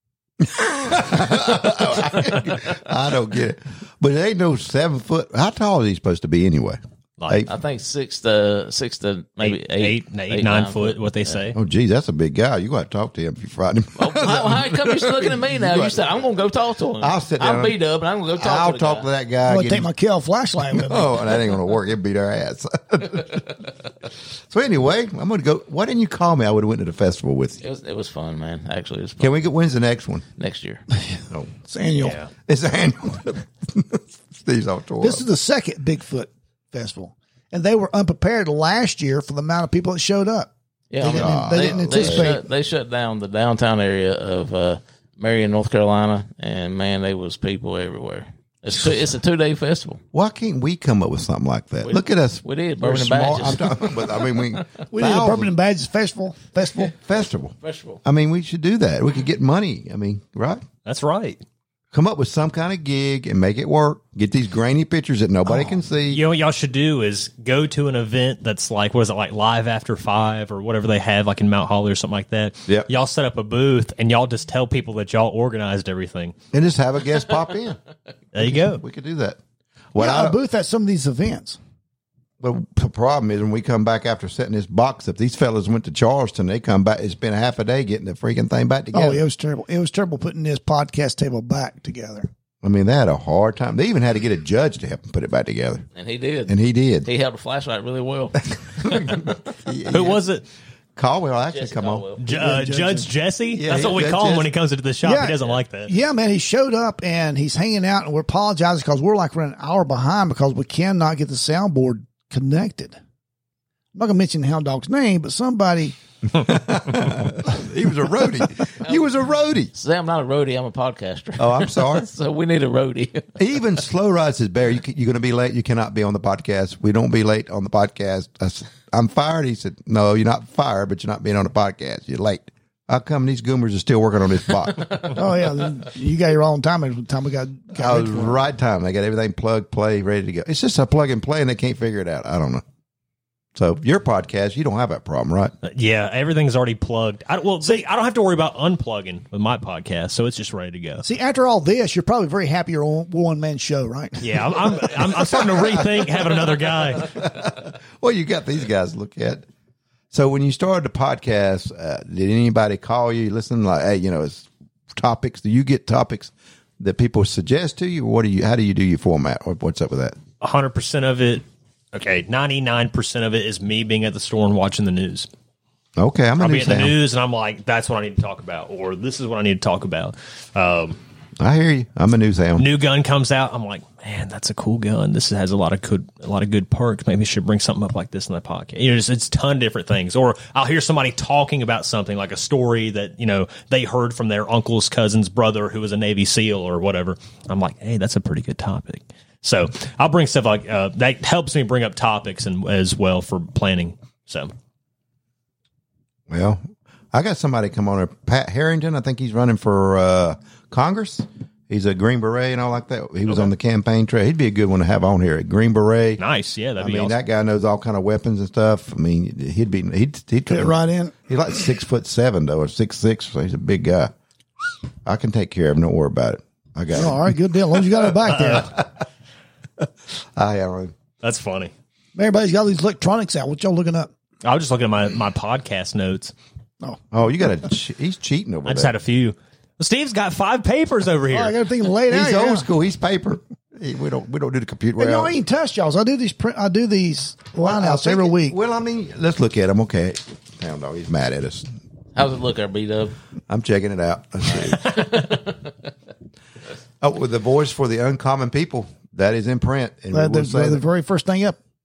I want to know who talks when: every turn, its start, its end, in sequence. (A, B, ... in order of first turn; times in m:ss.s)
0:00.4-0:07.5 A
0:07.2-0:07.4 B
0:07.4-0:11.4 C
0:09.4-0:11.6 B
0:11.5-0:16.0 A
0:14.0-0:19.1 C
0:17.0-0:17.8 A
0:18.3-0:19.9 A
0:19.5-0:21.2 D
0:20.7-0:23.6 A
0:24.5-0:27.6 A
0:27.6-0:29.4 C
0:29.2-0:30.2 A
0:30.4-0:30.8 C
0:31.6-0:32.2 D
0:32.0-0:32.3 B
0:32.3-0:35.2 A
0:35.0-0:42.4 D
0:40.9-0:50.0 C
0:41.0-0:42.3 A
0:50.1-0:55.5 A
0:51.8-0:54.3 C
0:54.9-0:56.9 D
0:56.9-1:00.6 A
0:57.6-0:58.0 C
1:00.8-1:01.4 B
1:01.9-1:06.2 A
1:06.1-1:16.3 B
1:16.5-1:17.8 A
1:18.3-1:18.8 B
1:18.4-1:19.4 A
1:19.9-1:20.4 A
1:20.0-1:21.6 D
1:22.4-1:29.2 A
1:28.9-1:32.3 D
1:32.6-1:35.8 A
1:35.9-1:39.3 C
1:36.5-1:37.1 A
1:38.8-1:40.2 A
1:39.9-1:40.4 B
1:41.0-1:42.1 A
1:41.5-1:42.2 C
1:42.2-1:45.9 B
1:42.3-1:43.1 D
1:43.5-1:44.5 A
1:45.0-1:53.0 D
1:53.9-1:56.0 D
1:56.3-1:59.7 A
1:59.7-2:03.3 C
2:01.4-2:02.1 A
2:03.4-2:15.1 A
2:15.1-2:18.4 D
2:17.7-2:22.6 A
2:23.5-2:25.5 A
2:25.6-2:31.0 B
2:31.0-2:34.5 D
2:34.2-2:37.1 B
2:36.9-2:39.4 A
2:40.1-2:50.2 A
2:50.4-2:55.3 B
2:56.0-2:57.0 A
2:56.4-3:01.0 B
3:01.4-3:02.6 A
3:02.6-3:24.5 B
3:26.3-3:26.6 A
3:27.1-3:36.2 A
3:36.2-3:37.1 B
3:36.8-3:40.7 A
3:40.5-3:41.1 D
3:41.3-3:44.1 A
3:45.0-3:47.3 A
3:46.9-3:48.7 D
3:48.2-3:48.7 B
3:49.8-3:50.9 A
3:51.2-3:51.7 B
3:52.1-3:54.1 D
3:54.4-3:56.3 B
3:57.1-3:58.9 A
3:58.6-4:01.5 B
4:01.3-4:02.7 D
4:02.1-4:05.3 A
4:05.0-4:08.6 D
4:07.6-4:11.7 A
4:12.1-4:13.2 C
4:13.5-4:15.1 A
4:14.9-4:15.5 C
4:17.0-4:20.8 A
4:20.1-4:21.6 D